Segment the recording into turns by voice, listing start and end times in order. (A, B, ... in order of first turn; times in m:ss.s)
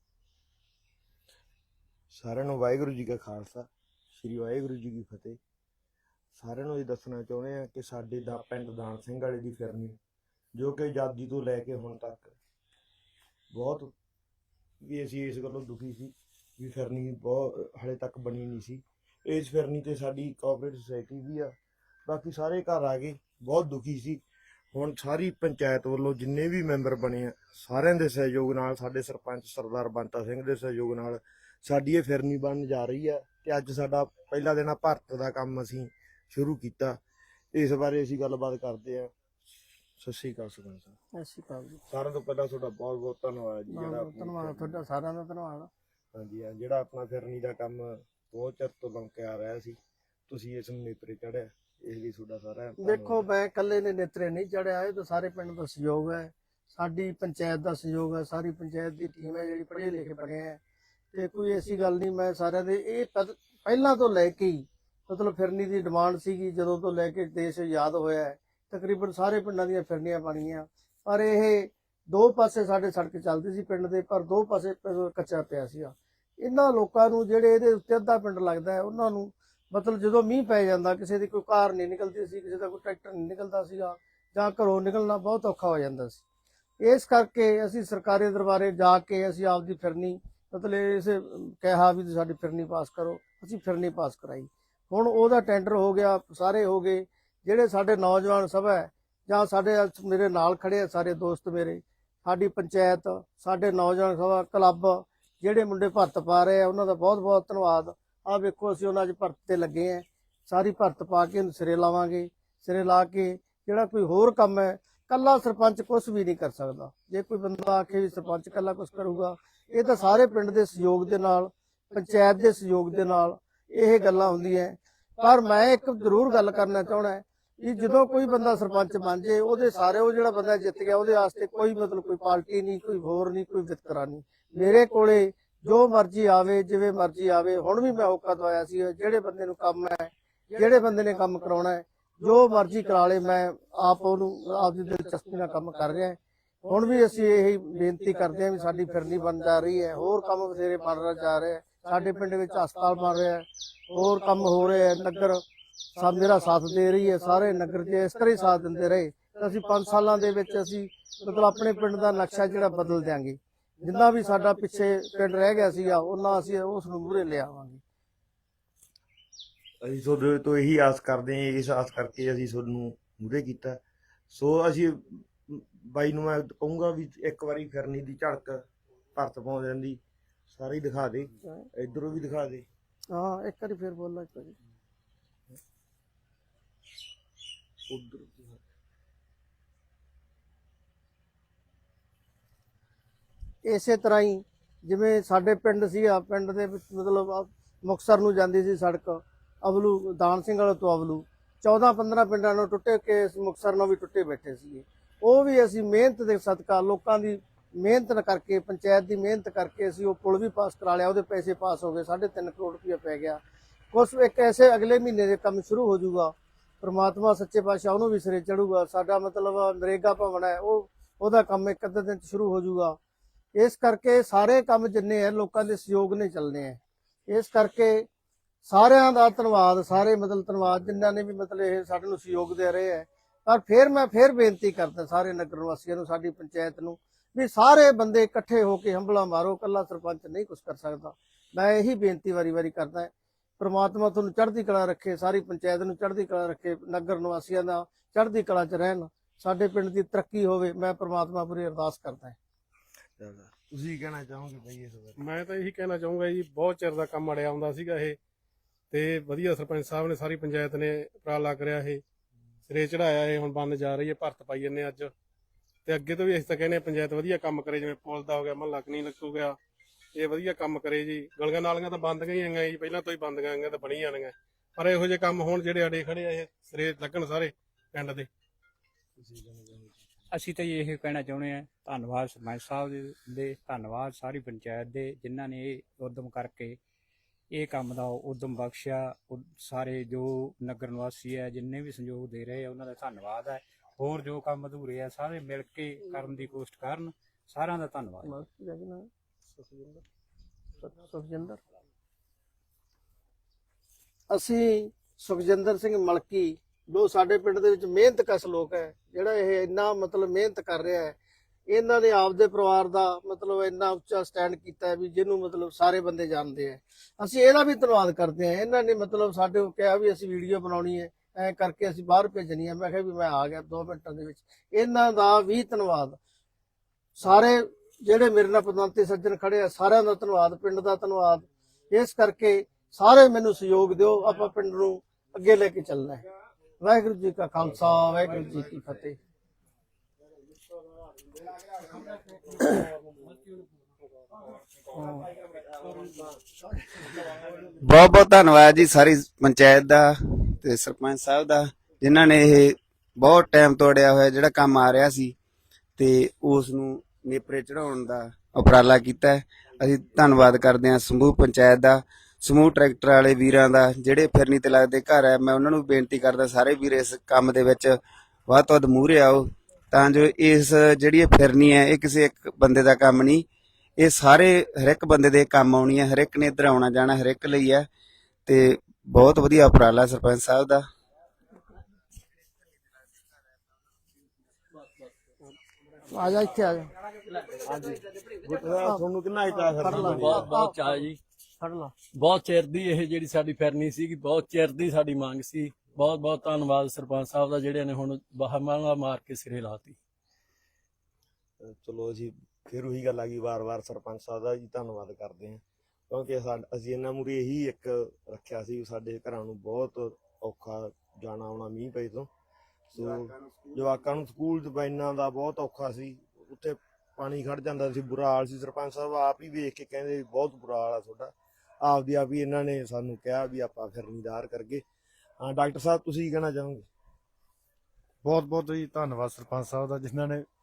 0:02.1-0:05.4 A
0:06.4-0:10.0 A
0:10.6-0:12.4 A
0:13.5-0:13.9 A
0:14.8-0:21.6 A
0:22.1-0:24.2 A
0:24.7-0:37.0 A
0:37.5-0:39.1 A
0:40.0-0:41.0 A
0:41.2-0:41.8 B
0:41.9-0:44.8 A
0:43.7-0:45.7 B
0:46.1-0:53.2 A
0:52.8-1:00.6 B
1:01.1-1:26.2 B
1:26.8-2:35.4 B
2:36.0-2:47.8 B
2:49.8-2:53.8 A
2:54.3-2:58.6 A
2:59.2-3:00.0 A
3:00.5-3:02.6 A
3:03.1-3:04.6 B
3:07.9-3:08.6 A
3:13.6-3:33.4 B
3:33.9-3:43.0 B
3:43.6-3:48.1 B
3:48.6-4:12.4 B
4:13.2-4:15.2 A
4:15.3-4:18.1 C
4:19.0-4:22.0 C
4:22.7-4:25.1 C
4:25.9-4:29.5 C
4:30.2-4:37.5 C
4:38.0-4:38.3 C
4:39.2-4:39.9 A
4:40.3-4:46.8 D
4:47.5-4:58.3 D
4:58.2-4:59.1 B
4:59.6-5:00.0 B
5:00.8-5:01.6 B
5:04.3-5:11.2 B
5:11.7-5:26.2 B
5:27.2-5:36.2 B
5:36.8-5:39.2 B
5:45.0-5:45.3 B
5:47.8-5:55.3 E
5:56.0-6:08.0 E
6:08.5-6:13.4 E
6:14.0-6:17.9 E
6:18.5-6:20.8 E
6:26.1-6:26.9 B
6:27.8-6:30.5 A
6:28.8-6:31.9 B
6:29.9-6:31.2 F
6:32.2-6:40.0 F
6:41.6-6:52.3 A
6:52.9-6:53.8 E
6:53.0-7:04.8 A
7:05.4-7:06.9 A
7:08.2-7:10.5 G